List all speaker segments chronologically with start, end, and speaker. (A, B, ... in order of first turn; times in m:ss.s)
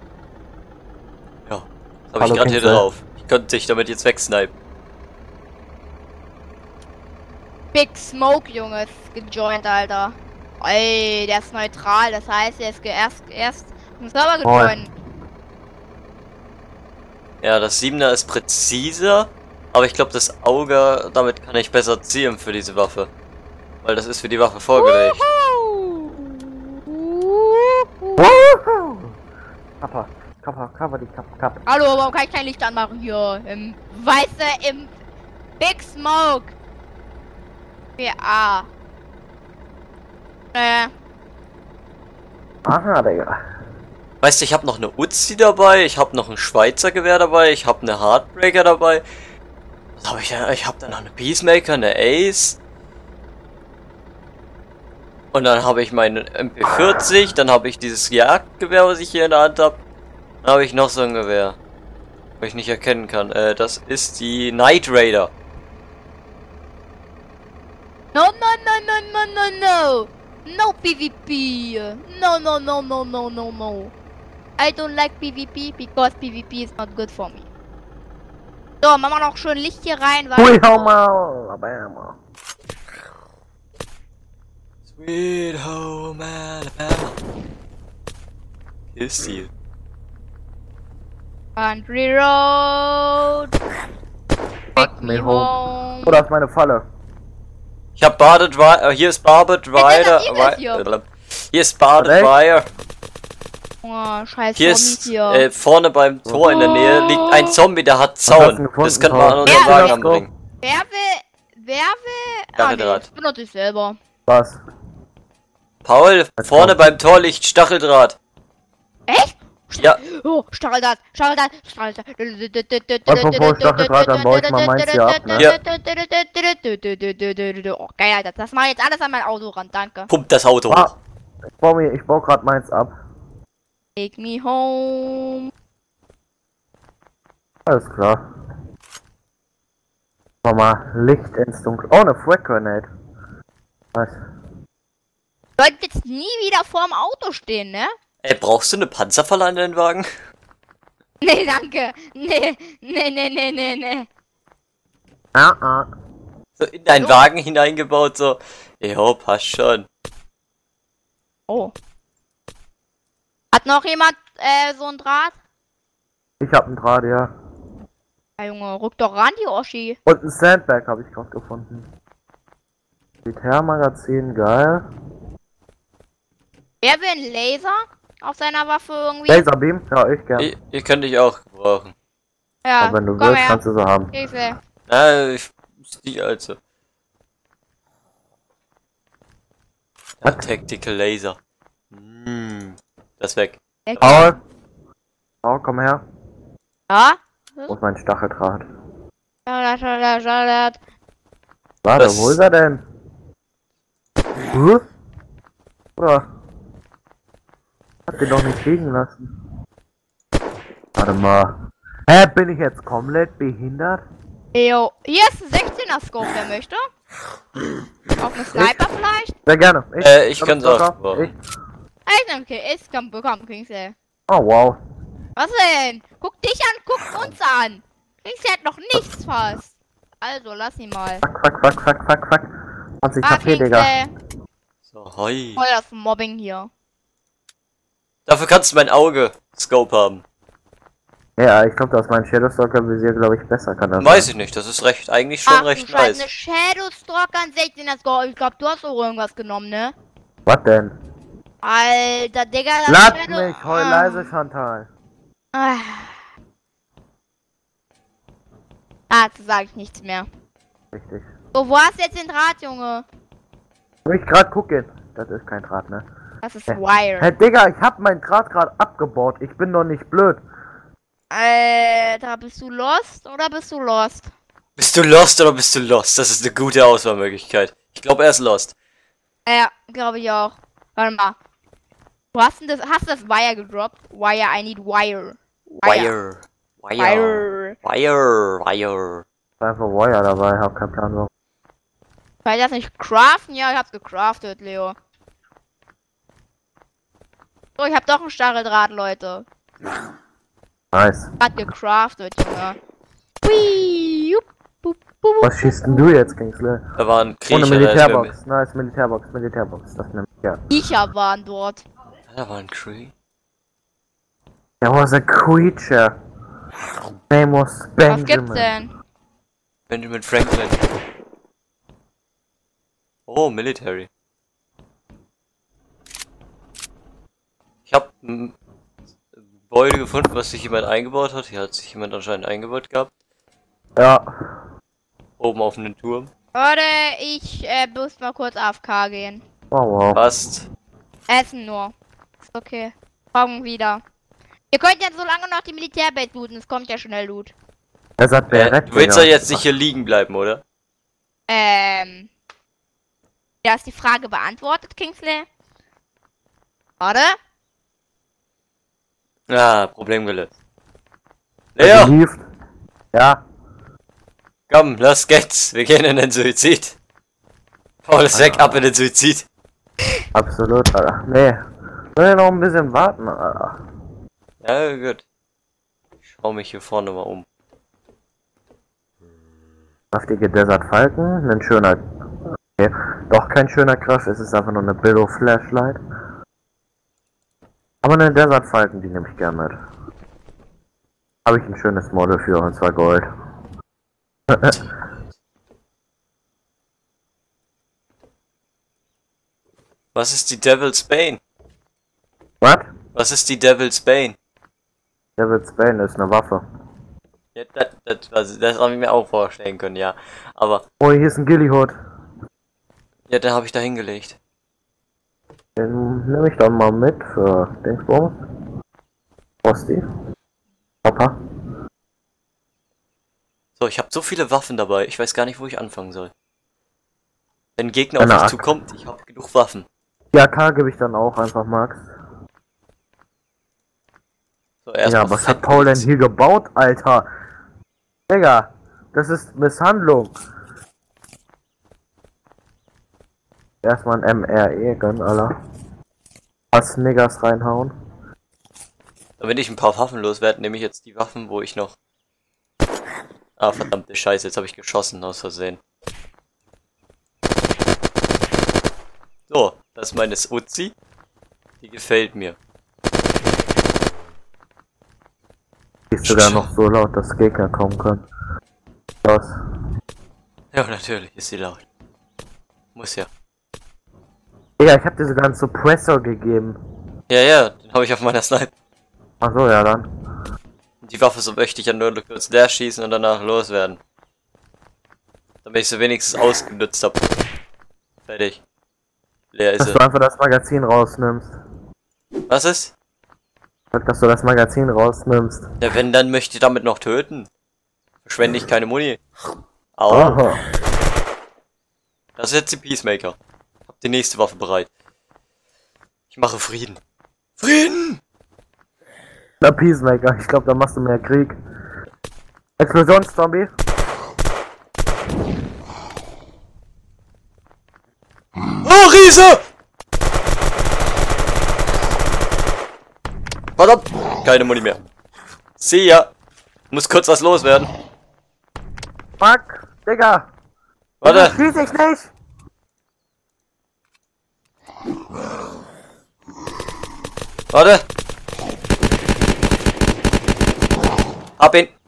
0:01.5-0:04.5 A
0:02.2-0:02.8 B
0:07.7-0:14.9 C
0:14.4-0:14.7 B
0:17.4-0:23.1 A
0:23.8-0:25.2 A
0:24.7-0:28.4 C
0:28.2-0:29.2 B
0:29.8-0:31.6 B
0:31.6-0:34.9 C
0:35.6-0:36.5 C
0:38.0-0:38.7 C
0:40.5-0:40.9 C
0:42.6-0:43.4 B
0:44.2-0:49.0 A
0:50.0-0:52.6 A
0:55.3-0:59.8 A
1:00.4-1:01.6 A
1:02.4-1:05.3 A
1:08.1-1:13.9 C
1:14.6-1:17.4 C
1:18.8-1:20.9 C
1:20.4-1:22.2 B
1:24.9-1:27.2 A
1:28.9-1:29.5 A
1:31.6-1:33.5 C
1:34.8-1:35.5 B
1:34.8-1:36.2 C
1:36.0-1:36.8 B
1:38.0-1:42.7 A
1:39.8-1:40.8 C
1:42.0-1:42.3 B
1:43.8-1:45.4 C
1:44.6-1:50.3 A
1:46.3-1:46.6 B
1:46.4-1:47.6 C
1:48.3-1:50.3 B
1:49.5-1:50.0 C
1:50.6-1:54.0 C
1:52.6-1:53.1 A
1:54.3-1:54.6 B
1:55.8-1:58.2 A
1:56.4-1:56.9 B
1:59.1-2:10.1 C
2:03.1-2:05.4 B
2:10.1-2:11.0 A
2:10.7-2:11.0 B
2:11.6-2:12.9 B
2:14.0-2:15.5 C
2:17.7-2:18.2 B
2:20.4-2:22.9 B
2:25.6-2:27.9 C
2:28.2-2:30.1 A
2:31.2-2:34.1 C
2:35.3-2:35.9 B
2:36.6-2:39.9 A
2:37.0-2:37.2 C
2:43.5-2:45.4 C
2:46.4-2:47.3 B
2:48.4-2:50.0 C
2:50.0-2:51.9 B
2:53.2-2:54.8 B
2:56.8-2:59.4 C
2:59.3-3:00.5 B
3:00.4-3:01.9 A
3:02.6-3:03.6 C
3:02.8-3:04.1 B
3:04.1-3:04.6 C
3:04.9-3:06.6 A
3:10.2-3:11.4 A
3:11.9-3:14.3 A
3:13.9-3:14.4 C
3:14.0-3:14.4 B
3:15.4-3:16.0 B
3:16.9-3:17.7 C
3:17.7-3:18.6 B
3:19.4-3:20.8 C
3:21.8-3:22.8 B
3:22.0-3:22.4 A
3:24.5-3:24.8 B
3:26.0-3:26.2 B
3:28.1-3:29.3 B
3:31.0-3:34.0 B
3:34.5-3:36.9 C
3:38.2-3:39.3 C
3:38.5-3:38.8 B
3:39.4-3:41.3 B
3:40.0-3:41.3 A
3:42.0-3:43.9 C
3:44.3-3:44.8 B
3:45.4-3:51.2 C
3:51.2-3:52.5 B
3:53.0-3:53.9 B
3:53.2-3:54.1 C
3:54.9-3:55.6 A
3:55.6-3:56.7 C
3:58.3-4:00.2 A
4:01.4-4:04.3 B
4:04.0-4:06.3 A
4:05.5-4:09.9 C
4:10.4-4:10.9 B
4:11.6-4:14.3 C
4:12.9-4:14.9 B
4:15.5-4:16.2 C
4:19.1-4:20.3 C
4:20.9-4:21.3 B
4:21.5-4:23.0 C
4:24.0-4:26.0 B
4:26.4-4:27.3 C
4:26.7-4:30.4 B
4:31.3-4:34.3 C
4:34.8-4:38.7 A
4:39.4-4:41.4 C
4:42.3-4:46.1 C
4:45.8-4:49.2 A
4:47.0-4:47.8 C
4:49.6-4:51.3 B
4:52.4-4:55.0 C
4:57.8-4:59.4 C
5:00.9-5:01.3 B
5:01.4-5:02.8 C
5:03.4-5:06.3 C
5:05.4-5:06.8 B
5:07.0-5:08.3 A
5:07.5-5:10.6 B
5:10.7-5:11.8 C
5:12.3-5:13.1 A
5:14.8-5:16.1 B
5:17.3-5:18.7 B
5:18.1-5:18.9 C
5:19.9-5:20.8 A
5:23.3-5:24.1 A
5:27.9-5:28.6 A
5:29.6-5:33.1 A
5:34.0-5:34.2 B
5:35.4-5:36.3 A
5:36.5-5:39.4 C
5:39.7-5:40.2 B
5:40.1-5:40.7 A
5:41.3-5:41.9 C
5:42.5-5:44.0 C
5:44.7-5:47.5 C
5:48.2-5:49.6 B
5:48.5-5:50.6 A
5:51.5-5:52.3 C
5:53.6-5:55.4 C
5:57.0-5:57.4 C
5:59.5-6:00.5 A
6:01.8-6:02.1 A
6:01.8-6:02.4 B
6:03.1-6:03.4 B
6:04.7-6:07.0 A
6:08.0-6:09.5 A
6:08.3-6:08.8 B
6:10.3-6:11.6 B
6:12.2-6:13.8 B
6:14.6-6:15.2 A
6:16.3-6:17.5 A
6:20.1-6:22.0 B
6:22.8-6:26.0 B
6:28.0-6:29.8 B
6:31.4-6:33.3 B
6:34.5-6:34.8 B
6:40.1-6:41.4 A
6:42.6-6:42.9 B
6:43.1-6:44.4 A
6:45.4-6:46.6 B
6:47.5-6:50.8 A
6:51.0-6:51.9 B
6:53.3-6:54.4 A
6:55.8-6:58.3 B
6:59.6-7:00.0 B
7:01.0-7:01.4 B
7:03.8-7:06.3 A
7:07.8-7:09.9 A
7:08.2-7:08.6 B
7:10.3-7:12.0 B
7:14.8-7:16.1 A
7:15.0-7:17.3 B
7:18.3-7:20.4 B
7:23.8-7:25.5 B
7:26.7-7:27.9 B
7:29.4-7:32.0 A
7:33.6-7:35.8 A
7:39.5-7:40.9 A
7:41.8-7:42.6 A
7:46.1-7:48.2 B
7:46.2-7:46.7 A
7:49.2-7:49.5 B
7:50.7-7:51.8 A
7:52.9-7:53.3 A
7:54.8-7:56.8 B
7:57.3-7:58.7 A
7:59.4-8:00.1 B
8:01.0-8:04.0 A
8:05.6-8:07.3 A
8:08.3-8:08.6 A
8:09.5-8:10.0 A
8:09.8-8:11.5 B
8:12.5-8:12.9 A
8:13.9-8:15.7 B
8:15.8-8:17.5 A
8:18.2-8:19.2 A
8:20.0-8:20.4 A
8:20.1-8:20.6 B
8:22.4-8:23.4 A
8:23.9-8:24.9 A
8:26.3-8:27.0 A
8:27.6-8:28.2 A
8:29.6-8:31.5 B
8:32.8-8:33.7 B
8:38.8-8:39.6 A
8:43.8-8:45.0 A
8:45.8-8:46.3 A
8:46.9-8:47.9 A
8:49.4-8:50.5 B
8:51.2-8:51.6 A
8:51.2-8:52.3 B
8:57.7-8:58.0 A
9:01.6-9:01.9 A